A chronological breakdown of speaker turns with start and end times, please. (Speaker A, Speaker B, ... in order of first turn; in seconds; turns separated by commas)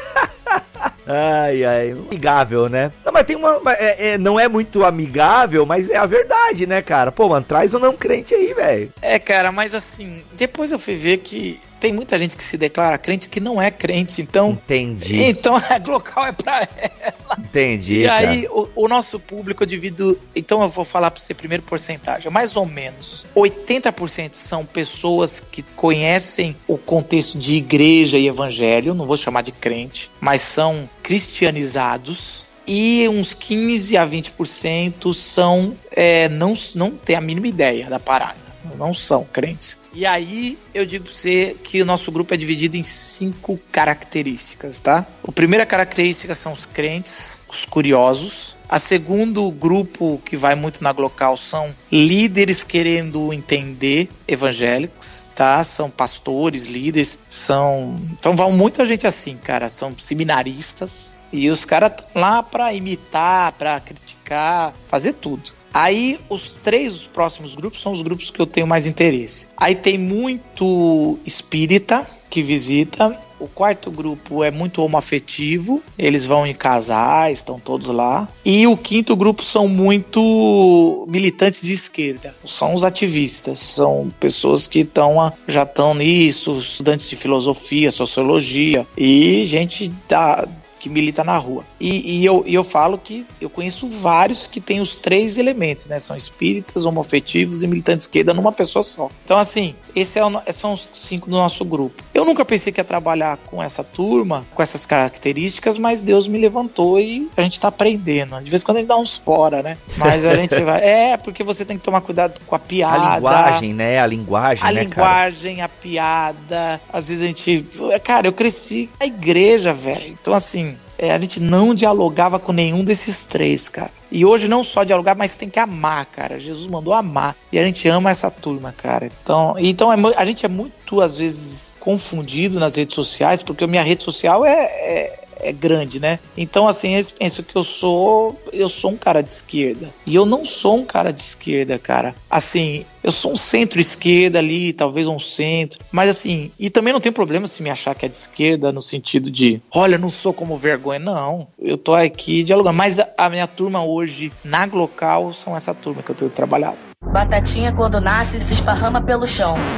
Speaker A: 0.2-8.9, Speaker B: 9.0-17.4, Speaker A: 14.5-15.3, Speaker A: 17.4-18.4, Speaker B: 17.9-113.6, Speaker A: 110.0-110.4, Speaker A: 112.9-115.2, Speaker B: 114.6-156.8, Speaker C: 157.1-159.6